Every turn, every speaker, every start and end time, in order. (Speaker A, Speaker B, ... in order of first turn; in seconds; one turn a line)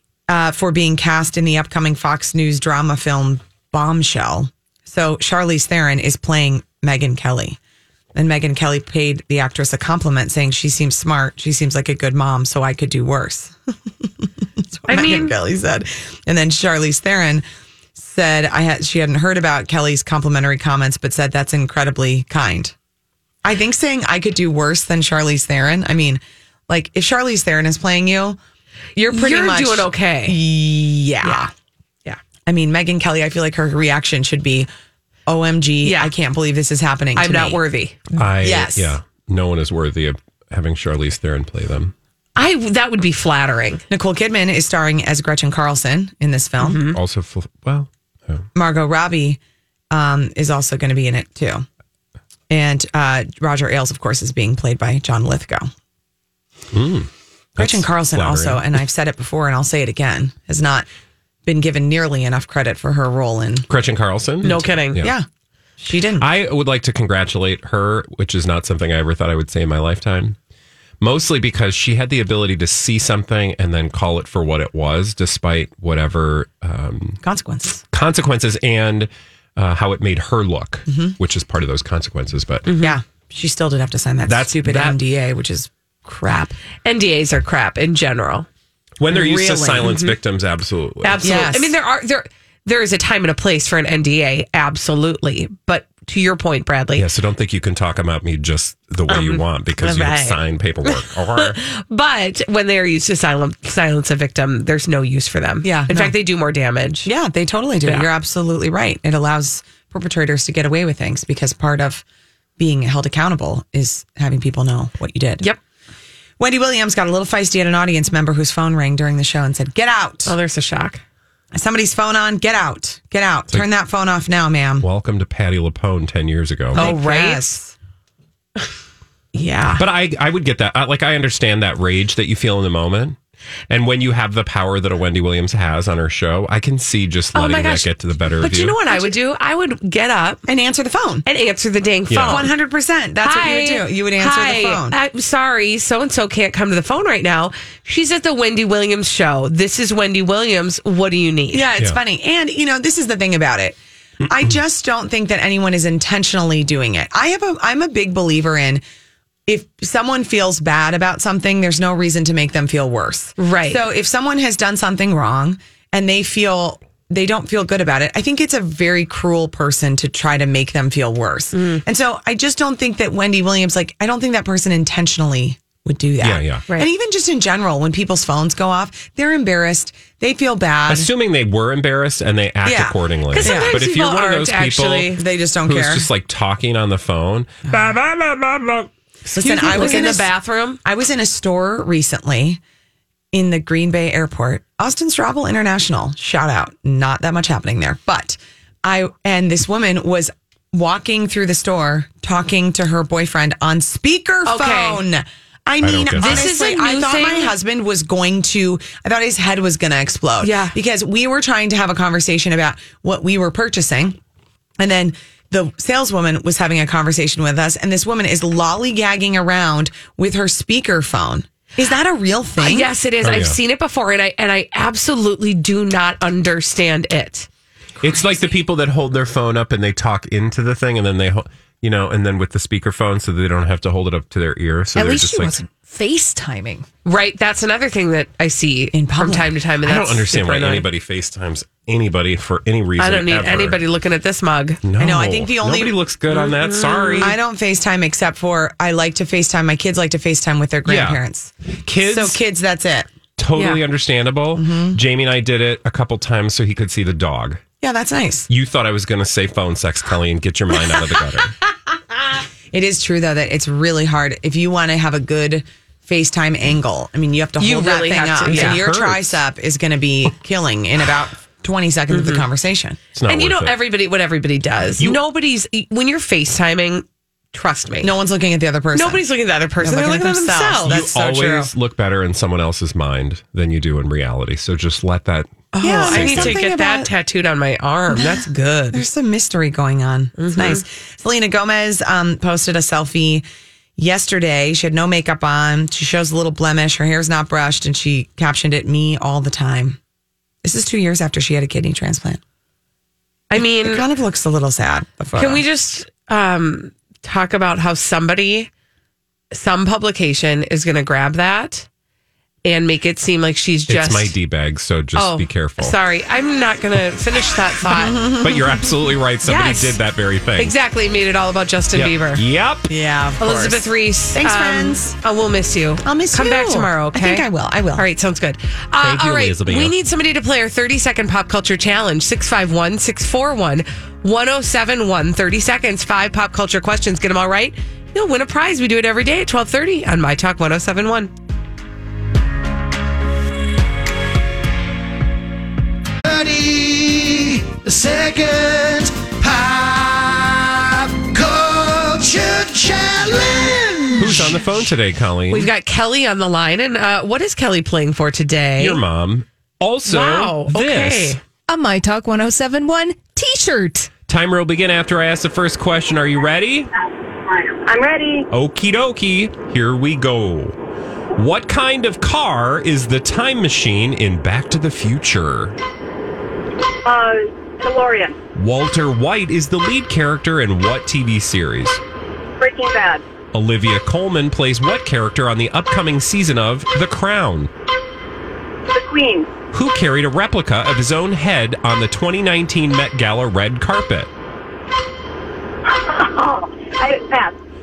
Speaker A: 0.3-7.6
Speaker A: 8.1-22.7
Speaker B: 14.9-15.3
Speaker A: 23.4-28.4
Speaker A: 29.0-31.5
Speaker B: 29.0-30.4
Speaker A: 32.5-34.7
Speaker A: 35.3-39.0
Speaker B: 35.8-36.1
Speaker B: 37.1-38.0
Speaker C: 38.1-41.9
Speaker B: 42.4-43.8
Speaker A: 43.9-46.8
Speaker B: 46.6-47.0
Speaker C: 46.9-48.5
Speaker A: 48.5-49.4
Speaker A: 49.9-51.6
Speaker A: 52.5-55.7
Speaker C: 56.7-58.6
Speaker A: 57.6-60.9
Speaker A: 61.5-63.7
Speaker C: 63.7-65.1
Speaker B: 64.4-65.0
Speaker A: 65.0-65.2
Speaker A: 65.8-66.3
Speaker C: 66.2-70.3
Speaker C: 71.0-77.2
Speaker A: 77.2-77.8
Speaker C: 77.9-82.7
Speaker A: 80.9-81.2
Speaker B: 82.7-83.0
Speaker A: 82.8-86.6
Speaker C: 84.2-84.9
Speaker B: 86.8-88.5
Speaker C: 89.0-91.3
Speaker B: 89.1-90.2
Speaker A: 89.2-89.8
Speaker B: 91.0-97.0
Speaker A: 91.2-91.7
Speaker C: 97.0-101.6
Speaker B: 99.1-107.1
Speaker A: 105.6-106.2
Speaker A: 107.0-112.0
Speaker B: 107.8-108.1
Speaker A: 112.6-115.5
Speaker A: 116.4-120.3
Speaker B: 120.2-121.0
Speaker A: 121.5-124.8
Speaker C: 124.8-126.9
Speaker A: 126.7-127.7
Speaker B: 126.8-127.6
Speaker B: 129.3-129.8
Speaker C: 129.8-133.2
Speaker C: 133.7-138.8
Speaker B: 137.3-140.4
Speaker A: 140.5-141.2
Speaker B: 141.2-142.5
Speaker C: 142.1-142.5
Speaker A: 142.2-145.0
Speaker B: 143.2-151.7
Speaker A: 151.5-158.8
Speaker A: 159.5-181.1
Speaker B: 163.4-163.8
Speaker B: 171.5-171.8
Speaker C: 176.2-176.6
Speaker C: 180.9-188.9
Speaker A: 182.6-183.8
Speaker B: 183.3-185.2
Speaker A: 185.1-186.1
Speaker B: 189.3-190.8
Speaker A: 189.3-190.3
Speaker C: 189.6-190.1
Speaker A: 190.8-192.6
Speaker A: 193.3-214.2
Speaker B: 204.5-205.0
Speaker C: 205.8-206.5
Speaker B: 206.2-207.5
Speaker B: 210.4-210.8
Speaker A: 214.8-222.9
Speaker B: 222.6-227.5
Speaker C: 223.2-223.6
Speaker C: 228.0-235.6
Speaker D: 234.9-236.8
Speaker B: 237.0-240.9
Speaker A: 238.9-239.5
Speaker C: 239.8-243.8
Speaker B: 243.0-244.8
Speaker C: 244.8-247.3
Speaker A: 245.0-246.0
Speaker B: 246.3-247.3
Speaker A: 247.2-253.1
Speaker C: 250.8-251.2
Speaker C: 251.8-252.4
Speaker C: 253.4-257.6
Speaker B: 253.5-253.8
Speaker A: 254.5-255.0
Speaker A: 257.8-258.5
Speaker C: 258.5-261.6
Speaker A: 262.7-273.0
Speaker B: 267.6-268.8
Speaker C: 268.5-269.4
Speaker B: 272.1-272.4
Speaker C: 273.1-273.8
Speaker B: 273.3-278.1
Speaker A: 278.0-279.2
Speaker B: 278.9-281.0
Speaker A: 279.8-281.7
Speaker C: 280.9-286.6
Speaker B: 285.7-289.0
Speaker A: 285.8-287.1
Speaker A: 288.1-293.4
Speaker B: 290.4-290.8
Speaker A: 294.0-300.0
Speaker A: 300.6-302.4
Speaker B: 303.5-304.0
Speaker A: 303.6-305.6
Speaker B: 305.4-308.7
Speaker B: 309.5-311.9
Speaker B: 312.6-314.3
Speaker C: 313.9-316.0
Speaker B: 315.1-318.3
Speaker A: 317.9-318.7
Speaker C: 318.4-320.8
Speaker B: 319.4-320.0
Speaker B: 320.6-322.4
Speaker C: 321.9-322.9
Speaker A: 322.9-325.2
Speaker B: 323.4-341.3
Speaker A: 326.0-328.1
Speaker C: 329.0-329.9
Speaker E: 346.2-354.7
Speaker C: 354.2-355.7
Speaker B: 355.5-359.0
Speaker C: 358.8-361.4
Speaker B: 360.1-361.4
Speaker D: 361.7-364.1
Speaker C: 364.3-366.9
Speaker F: 367.3-368.5
Speaker C: 368.5-370.8
Speaker C: 371.3-375.8
Speaker F: 377.0-378.4
Speaker C: 378.5-382.0
Speaker F: 382.6-383.2
Speaker C: 383.5-387.7
Speaker F: 388.9-389.5
Speaker C: 389.7-394.3
Speaker F: 395.9-397.5